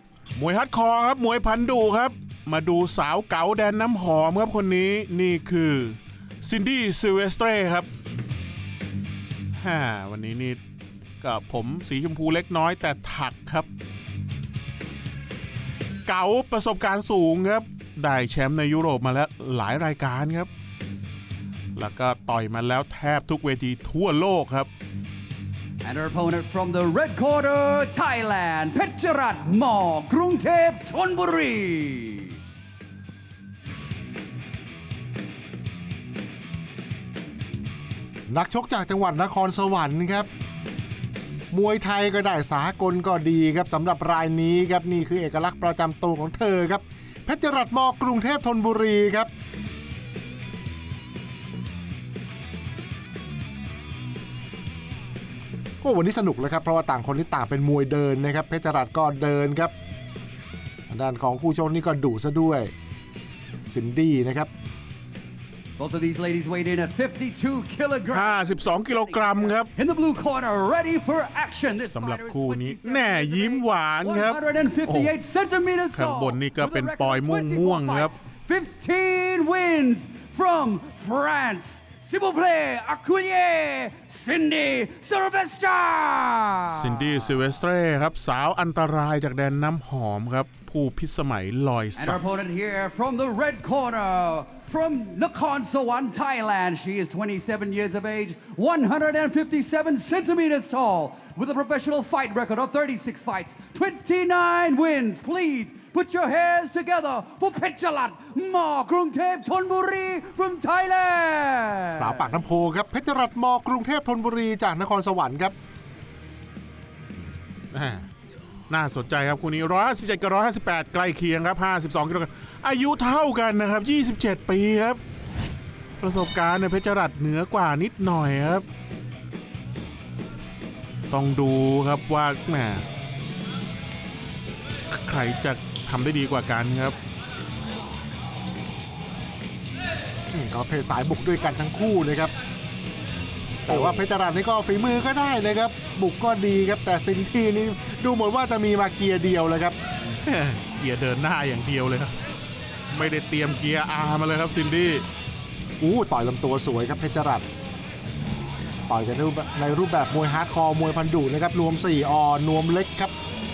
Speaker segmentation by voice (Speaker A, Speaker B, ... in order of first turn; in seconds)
Speaker A: 0.4-7.9, 9.6-10.6, 11.2-13.7, 16.1-20.5, 21.8-24.7, 68.1-69.7, 71.9-75.1, 75.9-78.1, 86.7-92.2, 117.7-118.1, 118.7-125.0, 126.0-128.7, 131.1-132.8, 134.9-136.9, 143.7-144.1, 150.2-152.2, 152.9-155.0
Speaker B: 25.8-32.4, 65.8-87.3, 92.0-112.3
Speaker C: 38.3-40.3, 41.5-49.3, 55.8-59.7, 60.9-62.7, 63.7-64.5, 111.9-115.5, 140.3-142.3, 143.7-149.8, 155.8-157.4, 158.9-163.1